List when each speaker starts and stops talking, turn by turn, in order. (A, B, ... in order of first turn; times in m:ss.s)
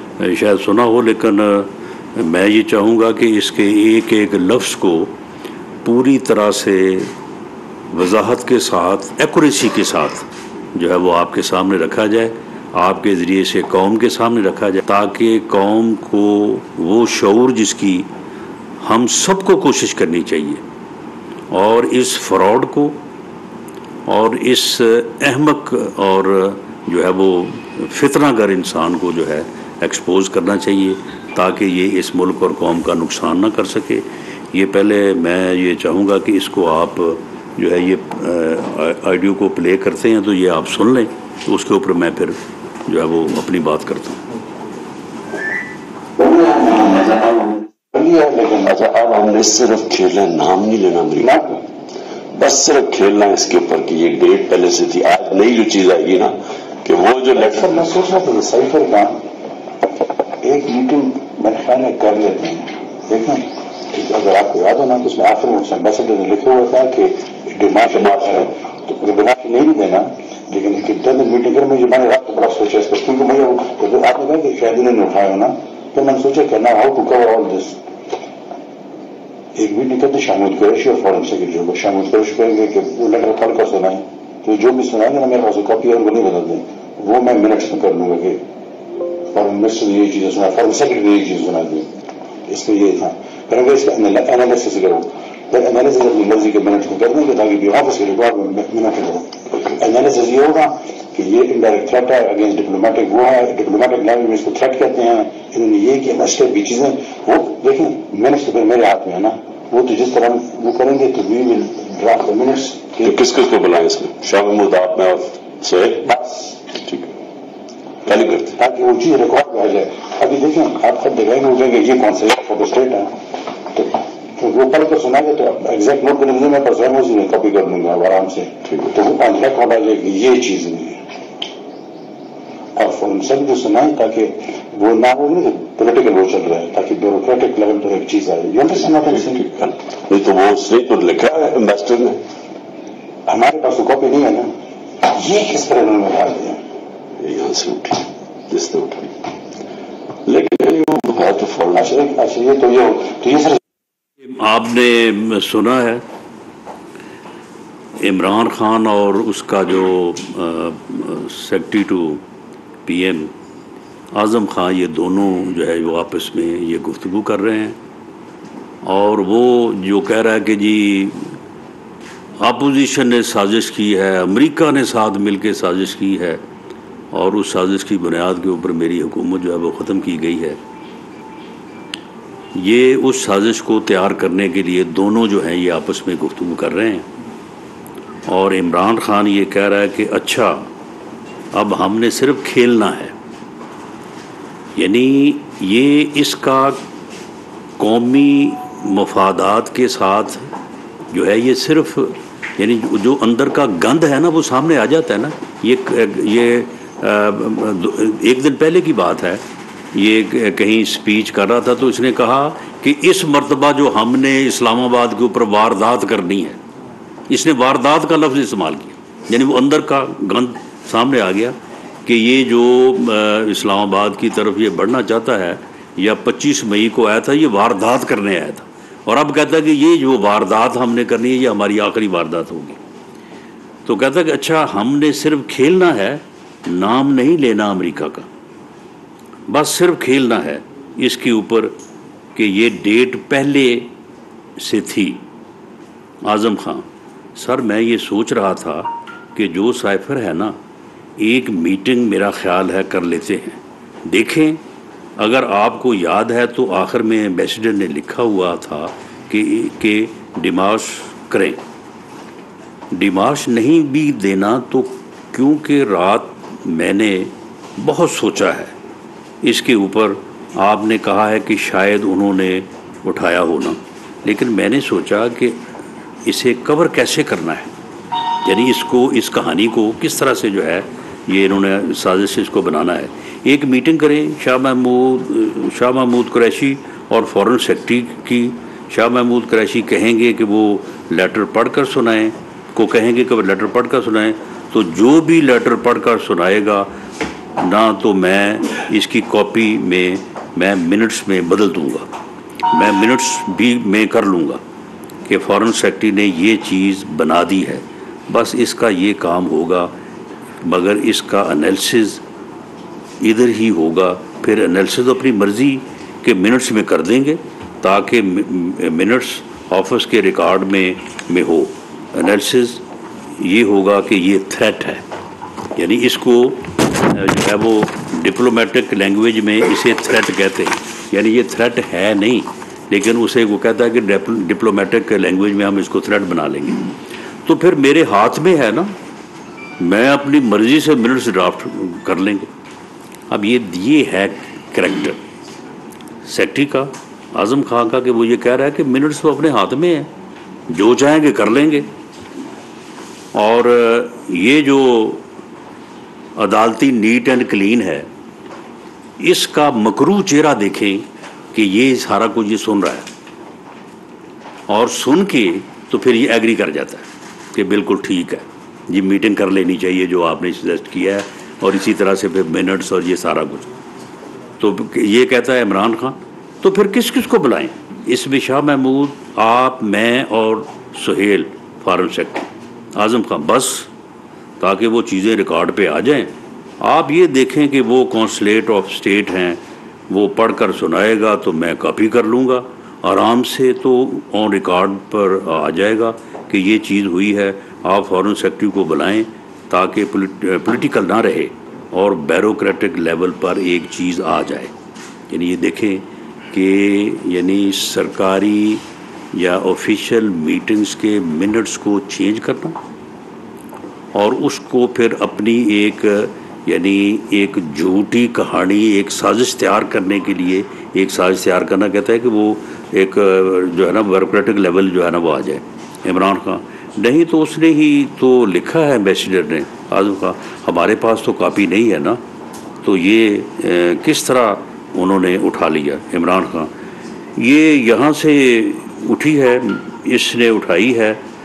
0:00.2-0:05.1 A
0:05.8-0:07.1 A
0:07.9-0:18.1 A
0:18.8-0:20.6 A
0:21.5-0:23.0 A
0:24.1-0:44.2 A
0:46.2-0:47.6 B
0:47.9-0:48.8 C
0:48.6-0:51.3 B
0:51.2-0:51.6 C
0:52.3-0:57.8 B
0:57.3-0:59.2 C
1:00.4-1:17.8 C
1:07.9-1:08.4 B
1:19.5-1:28.4 C
1:29.3-1:31.9 C
1:32.5-1:53.2 C
1:53.0-1:56.0 B
1:56.0-1:56.6 C
1:56.8-1:57.1 B
1:58.0-2:03.2 C
1:58.1-1:58.5 B
2:03.7-2:11.0 C
2:08.7-2:08.9 B
2:12.8-2:19.6 C
2:19.3-2:22.2 B
2:23.3-2:26.6 C
2:27.2-2:29.1 B
2:30.3-2:31.9 B
2:31.7-2:33.6 C
2:34.2-2:36.0 A
2:38.0-2:42.2 A
2:42.8-2:43.3 A
2:44.1-2:47.8 A
2:48.8-2:51.3 A
2:52.4-2:56.4 A
2:57.1-3:00.6 A
3:02.5-3:07.1 A
3:08.3-3:10.7 A
3:11.5-3:13.1 A
3:14.8-3:16.8 A
3:17.8-3:20.4 A
3:21.1-3:29.4 A
3:29.9-3:36.6 A
3:37.3-3:52.8 A
3:53.8-3:58.3 A
3:59.5-4:01.8 A
4:02.3-4:03.9 A
4:04.6-4:05.2 A
4:06.2-4:06.8 A
4:07.4-4:10.6 A
4:11.2-4:14.6 A
4:15.2-4:21.6 A
4:22.9-4:28.7 A
4:29.4-4:35.6 A
4:36.2-4:37.7 A
4:38.4-4:56.9 A
4:57.6-5:02.1 A
5:02.7-5:04.6 A
5:05.3-5:09.9 A
5:10.6-5:12.2 A
5:13.2-5:22.8 A
5:23.4-5:25.0 A
5:25.8-5:36.8 A
5:37.4-5:38.9 A
5:39.8-5:42.5 A
5:43.3-5:45.2 A
5:46.3-5:50.1 A
5:50.7-5:51.9 A
5:53.3-5:55.2 A
5:56.4-5:58.1 A
5:59.2-6:03.1 A
6:04.7-6:13.7 A
6:14.6-6:23.9 A
6:24.6-6:44.7 A
6:45.3-6:52.8 A
6:54.1-7:12.2 A
7:12.8-7:16.7 A
7:17.4-7:21.2 A